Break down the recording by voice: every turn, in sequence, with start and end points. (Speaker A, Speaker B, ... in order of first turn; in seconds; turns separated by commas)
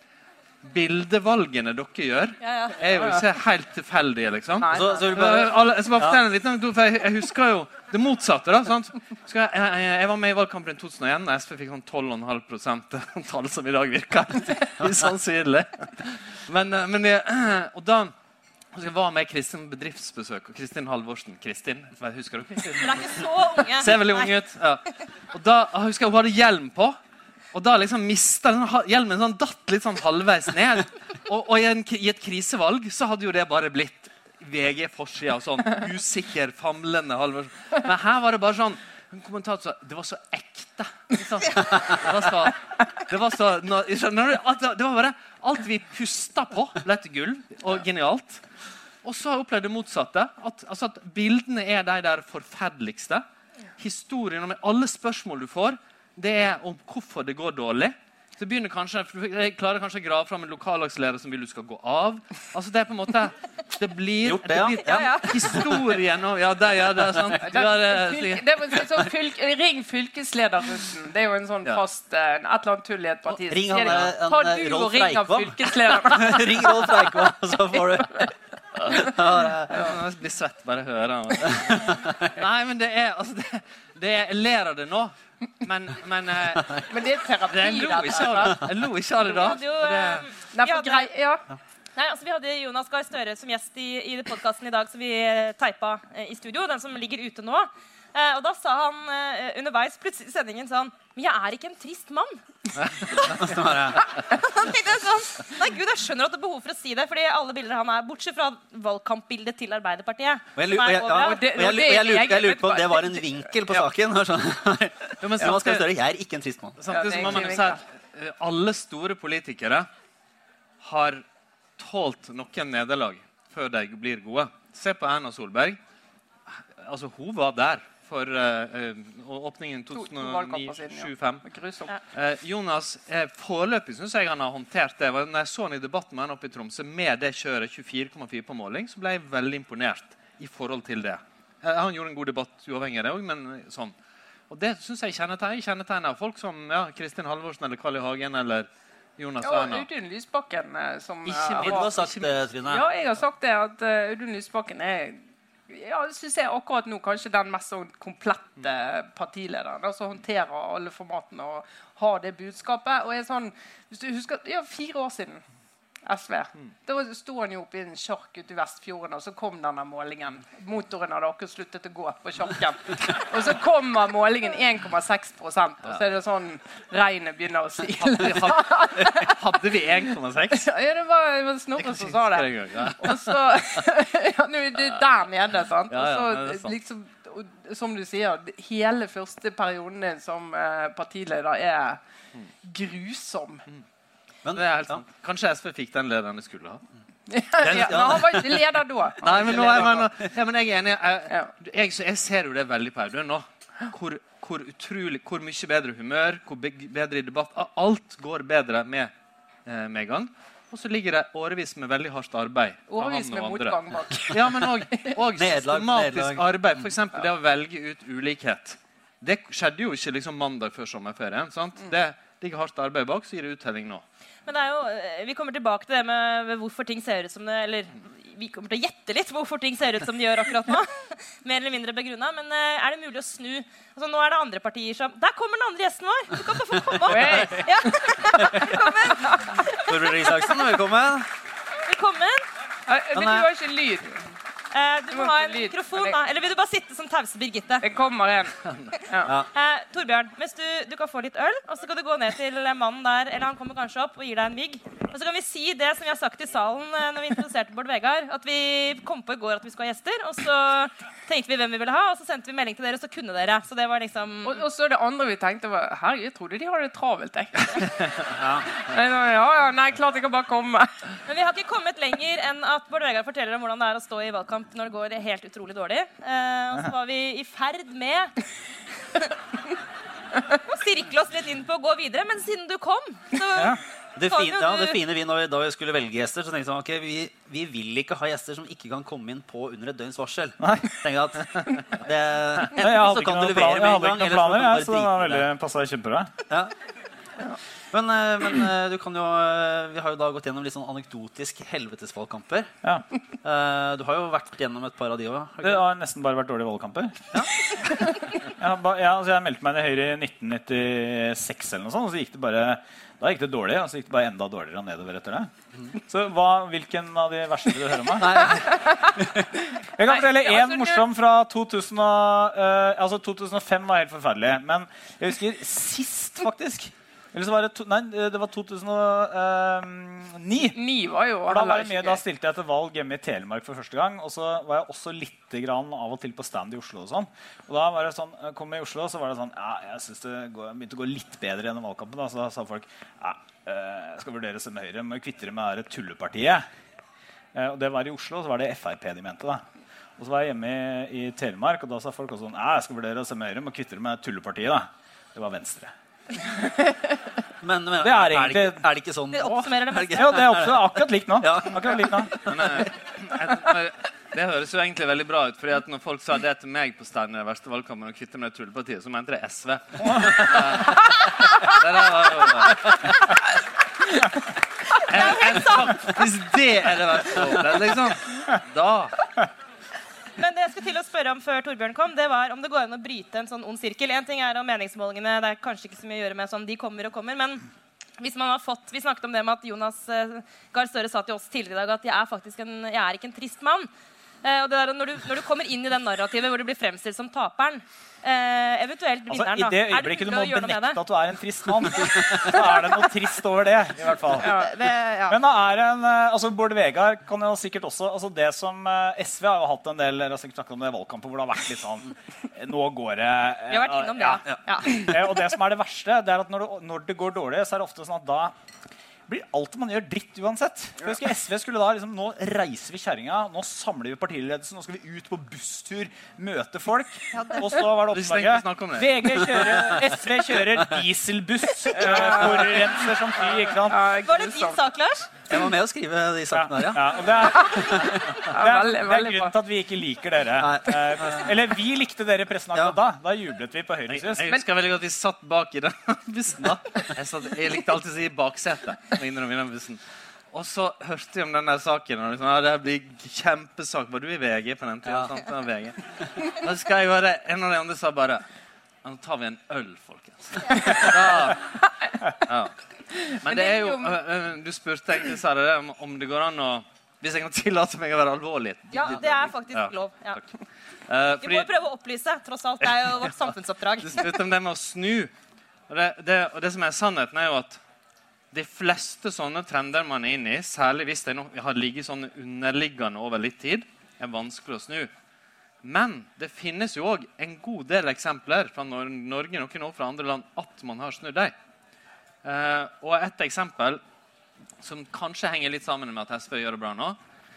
Speaker A: 0.6-18.1, Speaker B: 2.4-2.8, Speaker C: 4.6-5.4, Speaker D: 4.7-6.2, Speaker A: 18.7-27.0, Speaker B: 22.8-24.3, Speaker A: 27.5-48.4, Speaker A: 49.0-53.2, Speaker A: 53.8-68.8, Speaker D: 64.2-65.8, Speaker C: 67.4-78.3, Speaker D: 73.3-78.3, Speaker D: 78.8-79.9, Speaker A: 79.7-90.3, Speaker C: 79.7-80.0, Speaker D: 81.7-82.3, Speaker C: 86.9-88.7, Speaker B: 89.2-91.1, Speaker C: 90.4-91.4, Speaker B: 92.0-102.4, Speaker D: 103.1-104.1, Speaker B: 104.2-111.5, Speaker D: 110.6-116.8, Speaker C: 111.2-113.9, Speaker A: 115.2-115.8, Speaker A: 116.8-119.9, Speaker C: 116.9-117.8, Speaker A: 120.8-121.2, Speaker A: 121.8-125.8, Speaker A: 126.8-131.4, Speaker C: 129.9-131.9, Speaker A: 132.1-143.9, Speaker A: 144.5-149.9, Speaker C: 149.4-151.9, Speaker A: 151.3-152.4, Speaker D: 151.5-152.8, Speaker C: 152.6-165.4, Speaker C: 166.0-179.3, Speaker A: 178.0-180.7, Speaker C: 180.5-192.0, Speaker A: 181.8-183.4, Speaker A: 185.9-186.8, Speaker C: 192.6-193.6, Speaker D: 194.4-195.0, Speaker A: 194.5-196.8, Speaker C: 197.3-200.1, Speaker D: 197.6-198.7, Speaker A: 199.2-209.1, Speaker D: 199.2-200.1, Speaker A: 209.7-224.0, Speaker C: 212.9-215.2, Speaker D: 215.3-216.4, Speaker B: 224.5-240.6, Speaker C: 237.0-238.0, Speaker D: 238.4-238.8, Speaker D: 239.7-241.3, Speaker B: 241.9-242.5, Speaker C: 242.9-244.3, Speaker D: 243.1-243.5, Speaker B: 244.7-247.9, Speaker C: 245.1-246.2, Speaker C: 247.8-249.4, Speaker B: 249.5-264.6, Speaker C: 264.4-271.0, Speaker D: 268.4-268.7, Speaker B: 271.3-278.4, Speaker B: 280.5-285.0, Speaker E: 283.5-283.8, Speaker D: 284.2-295.5, Speaker E: 290.6-290.9, Speaker E: 292.7-296.3, Speaker D: 297.9-302.7, Speaker D: 303.4-305.9, Speaker E: 305.6-307.5, Speaker D: 307.3-308.2, Speaker E: 308.5-315.5, Speaker E: 316.0-318.7, Speaker D: 318.2-319.5, Speaker C: 318.5-321.0, Speaker E: 320.0-330.8, Speaker C: 330.8-332.2, Speaker E: 331.5-346.6, Speaker E: 347.6-349.6, Speaker E: 350.2-355.9, Speaker D: 357.6-362.9, Speaker E: 358.0-358.8, Speaker B: 359.3-360.4, Speaker E: 360.1-362.3, Speaker A: 362.5-373.1, Speaker A: 375.0-379.2, Speaker B: 375.0-376.2, Speaker B: 380.4-387.7, Speaker B: 388.2-393.9, Speaker B: 394.4-401.0, Speaker E: 399.3-404.6, Speaker B: 402.4-402.8, Speaker B: 404.4-405.4, Speaker E: 405.3-418.5, Speaker B: 413.7-415.1, Speaker E: 419.3-434.0, Speaker B: 427.3-427.7, Speaker A: 428.1-429.7, Speaker C: 431.9-432.9, Speaker C: 433.8-434.8, Speaker B: 434.2-435.3, Speaker D: 435.5-438.4, Speaker E: 436.5-444.5, Speaker C: 437.6-439.5, Speaker D: 440.6-441.5, Speaker A: 444.1-450.0, Speaker A: 450.5-458.4, Speaker A: 459.0-461.7, Speaker C: 460.8-461.1, Speaker C: 461.6-462.1, Speaker A: 462.4-470.5, Speaker C: 463.2-464.1, Speaker B: 468.9-470.4, Speaker A: 471.1-471.7, Speaker B: 471.4-474.4, Speaker A: 472.9-473.3, Speaker A: 474.0-475.3, Speaker A: 475.9-477.8, Speaker A: 478.5-485.1, Speaker A: 485.8-491.5, Speaker A: 492.4-494.0, Speaker A: 494.8-497.2